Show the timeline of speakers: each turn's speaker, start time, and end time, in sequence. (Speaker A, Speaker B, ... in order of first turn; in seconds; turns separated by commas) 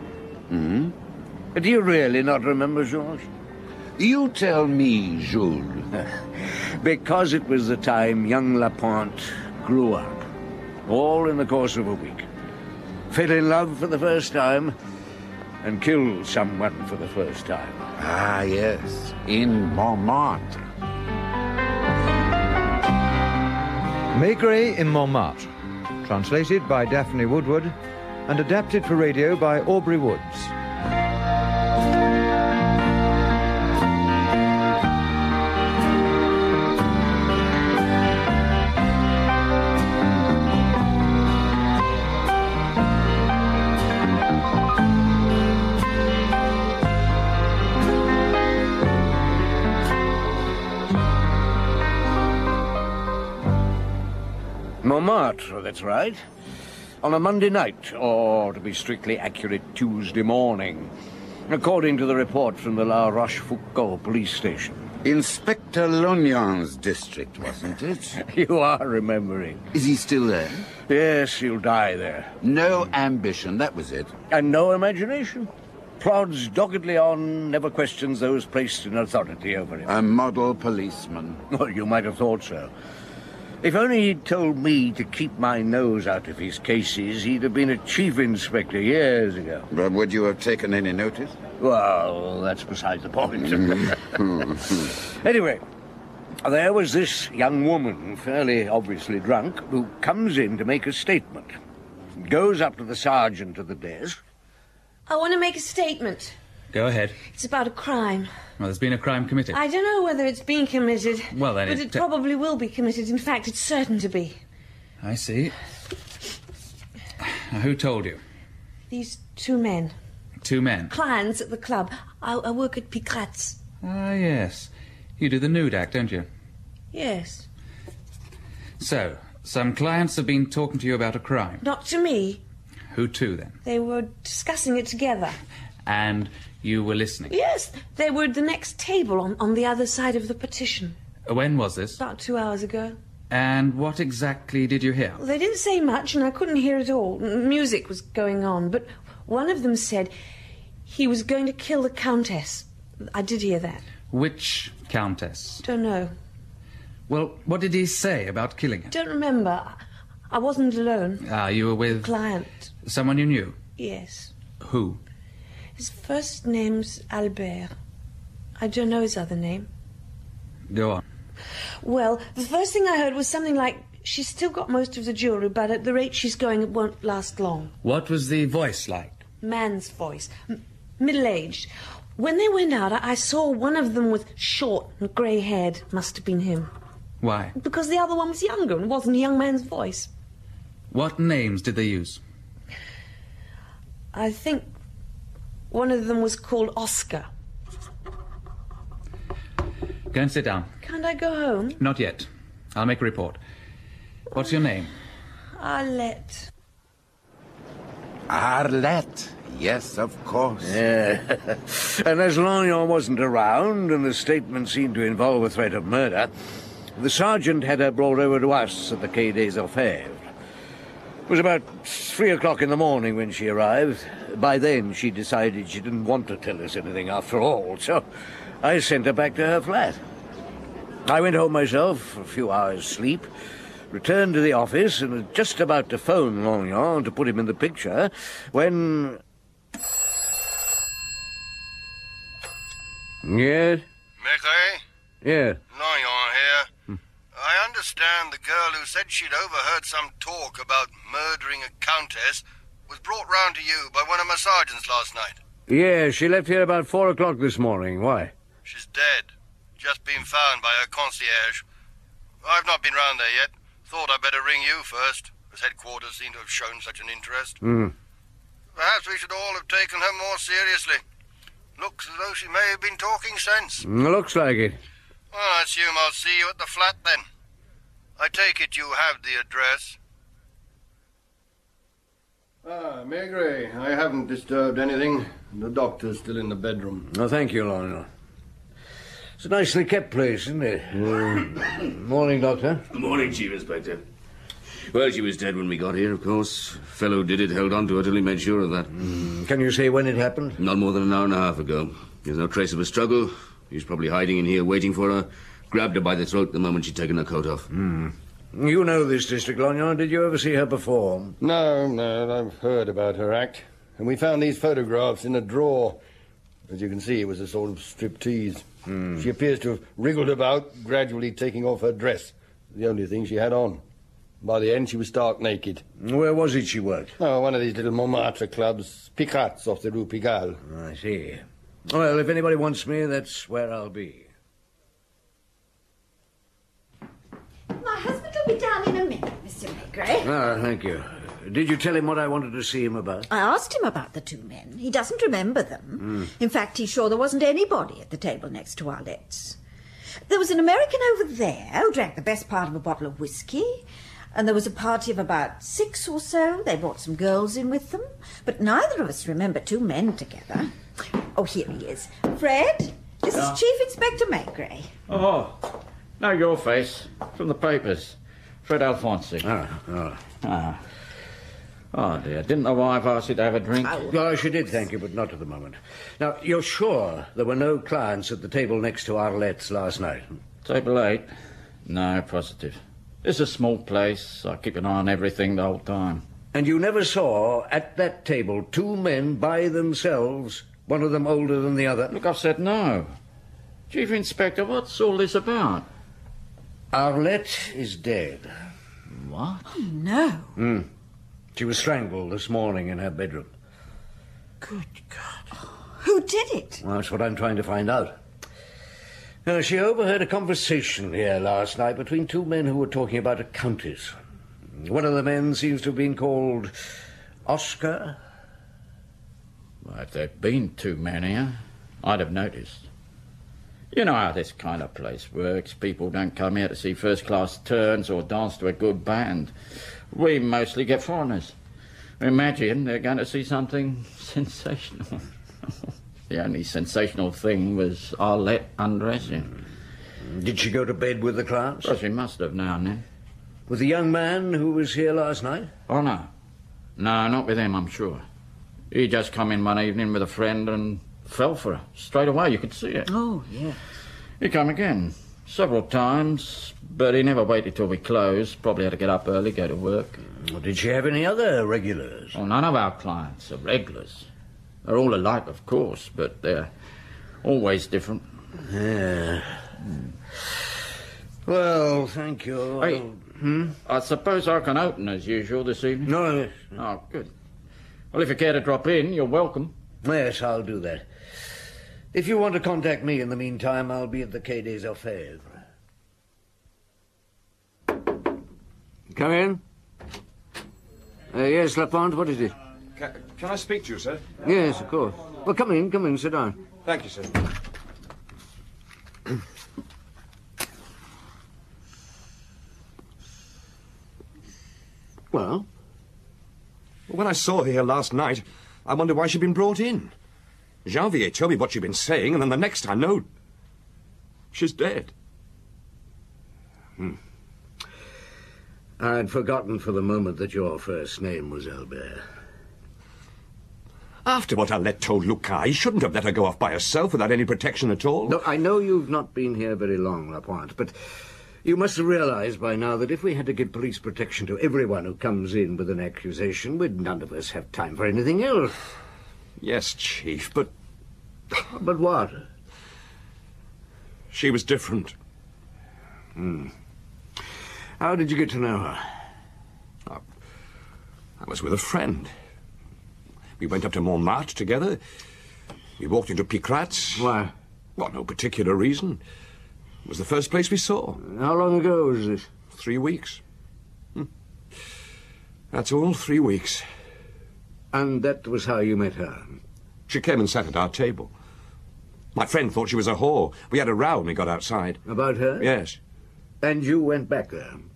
Speaker A: 0.5-0.9, Speaker B: 1.5-3.2, Speaker A: 4.0-5.9, Speaker B: 6.8-10.2, Speaker B: 10.8-12.3, Speaker B: 13.1-14.7, Speaker B: 15.6-17.8, Speaker A: 17.9-20.7, Speaker C: 24.1-25.5, Speaker C: 26.0-30.5, Speaker B: 54.8-56.2, Speaker B: 57.0-60.9, Speaker B: 61.5-64.8, Speaker A: 65.0-68.2, Speaker B: 68.1-69.6, Speaker A: 69.7-70.7, Speaker B: 70.8-72.3, Speaker A: 72.4-74.1, Speaker B: 74.3-79.9, Speaker A: 79.8-81.4, Speaker B: 81.5-82.7, Speaker B: 83.6-89.7, Speaker A: 89.7-91.4, Speaker B: 91.6-95.6, Speaker B: 96.4-101.5, Speaker B: 102.2-104.2, Speaker D: 105.1-106.3, Speaker E: 106.7-107.2, Speaker D: 107.3-108.3, Speaker E: 108.6-109.6, Speaker D: 109.5-114.4, Speaker E: 111.3-112.0, Speaker E: 115.0-115.5, Speaker E: 117.5-118.2, Speaker D: 118.9-119.9, Speaker E: 120.4-120.9, Speaker D: 120.9-123.6, Speaker E: 123.8-126.3, Speaker D: 126.9-127.5, Speaker E: 128.8-131.6, Speaker D: 131.6-132.4, Speaker E: 132.9-133.6, Speaker D: 133.6-135.4, Speaker E: 135.8-137.3, Speaker D: 137.3-141.0, Speaker E: 141.3-142.0, Speaker D: 142.0-143.0, Speaker E: 143.3-145.2, Speaker D: 145.2-150.1, Speaker D: 150.8-153.8, Speaker E: 154.1-155.6, Speaker D: 155.6-156.1, Speaker E: 157.1-158.9, Speaker D: 158.9-159.8, Speaker D: 160.3-161.2, Speaker E: 161.2-162.1, Speaker D: 161.9-162.7, Speaker E: 162.8-163.6, Speaker D: 163.8-164.3, Speaker E: 164.6-165.0, Speaker D: 165.8-167.7, Speaker D: 168.6-169.7, Speaker E: 170.7-171.0, Speaker D: 171.8-177.7, Speaker E: 177.8-179.2, Speaker D: 179.4-186.7, Speaker E: 187.2-187.5, Speaker D: 187.6-190.1, Speaker E: 190.9-192.2, Speaker D: 194.1-194.7, Speaker D: 195.7-197.3, Speaker E: 200.1-200.7, Speaker D: 200.8-201.8, Speaker E: 201.8-203.4, Speaker E: 204.3-204.9, Speaker D: 205.6-206.5, Speaker A: 208.3-210.8, Speaker B: 210.6-216.3, Speaker B: 216.9-220.3, Speaker B: 221.3-228.0, Speaker B: 228.6-230.0, Speaker B: 231.0-233.3, Speaker B: 233.9-239.2, Speaker B: 243.2-243.8, Speaker F: 244.2-244.8, Speaker B: 245.2-245.6, Speaker F: 245.7-246.7, Speaker F: 247.3-255.3, Speaker B: 255.7-258.3, Speaker F: 258.6-261.6, Speaker F: 262.4-267.6, Speaker B: 267.6-267.9, Speaker F: 268.8-271.0, Speaker F: 271.8-273.8, Speaker B: 273.8-274.8, Speaker F: 275.3-277.2, Speaker F: 278.2-280.0, Speaker F: 282.6-287.1, Speaker B: 287.1-288.1, Speaker B: 289.4-292.8, Speaker G: 292.9-294.0, Speaker G: 294.9-298.9, Speaker B: 298.9-300.6, Speaker G: 300.6-307.7, Speaker B: 307.7-311.3, Speaker F: 311.4-316.0, Speaker F: 316.7-323.8, Speaker B: 318.9-319.2, Speaker F: 324.4-325.8, Speaker B: 326.0-327.1, Speaker F: 327.2-330.6, Speaker B: 330.6-334.3, Speaker H: 337.7-340.3, Speaker B: 340.2-343.3, Speaker H: 343.3-349.6, Speaker H: 350.3-360.7, Speaker H: 361.2-364.9, Speaker I: 365.1-369.5, Speaker B: 369.4-370.2, Speaker I: 370.4-370.8, Speaker I: 371.9-374.1, Speaker B: 374.1-380.4, Speaker I: 380.6-381.3, Speaker I: 381.9-386.2, Speaker B: 386.5-392.1, Speaker I: 392.1-393.1, Speaker I: 393.9-395.9, Speaker B: 396.9-398.5, Speaker I: 399.1-399.6, Speaker H: 399.7-400.5, Speaker B: 400.6-400.9, Speaker B: 401.5-403.5, Speaker H: 406.0-406.8, Speaker B: 406.8-408.2, Speaker B: 409.4-414.1, Speaker B: 414.8-416.7, Speaker B: 417.4-418.2, Speaker I: 419.8-422.9, Speaker I: 423.9-429.5, Speaker I: 430.1-431.5, Speaker I: 432.2-435.7, Speaker I: 436.3-439.6, Speaker B: 440.2-441.9, Speaker I: 441.8-443.0, Speaker B: 443.7-445.7, Speaker I: 445.9-446.3, Speaker I: 447.0-448.2, Speaker I: 448.9-453.1, Speaker H: 453.1-453.8, Speaker I: 454.4-460.2, Speaker B: 460.4-462.4, Speaker I: 462.3-464.2, Speaker I: 464.8-466.7, Speaker I: 467.4-468.2, Speaker B: 468.6-469.6, Speaker B: 471.4-473.8, Speaker I: 473.8-477.3, Speaker B: 476.1-476.7, Speaker I: 478.1-479.7, Speaker B: 480.0-481.0, Speaker B: 482.1-485.6, Speaker B: 489.1-489.6, Speaker B: 491.3-492.5, Speaker J: 492.9-494.4, Speaker B: 494.4-496.6, Speaker J: 496.8-497.4, Speaker B: 505.3-505.6, Speaker J: 507.1-510.1, Speaker J: 510.8-513.2, Speaker J: 514.5-515.1, Speaker B: 519.0-522.2, Speaker J: 524.2-528.4, Speaker B: 528.2-531.0, Speaker B: 531.6-538.7, Speaker J: 539.6-540.7, Speaker B: 541.7-542.4, Speaker J: 544.3-545.1, Speaker B: 546.4-546.7, Speaker B: 548.0-549.1, Speaker J: 551.4-552.3, Speaker J: 553.6-555.0, Speaker J: 556.0-557.3, Speaker B: 557.1-557.5, Speaker J: 558.0-559.2, Speaker J: 560.0-561.2, Speaker B: 561.2-562.5, Speaker J: 562.7-563.4, Speaker J: 565.7-566.8, Speaker B: 567.9-569.6, Speaker J: 570.1-571.3, Speaker J: 572.3-575.0, Speaker B: 575.0-575.7, Speaker J: 575.6-576.0, Speaker B: 576.6-577.8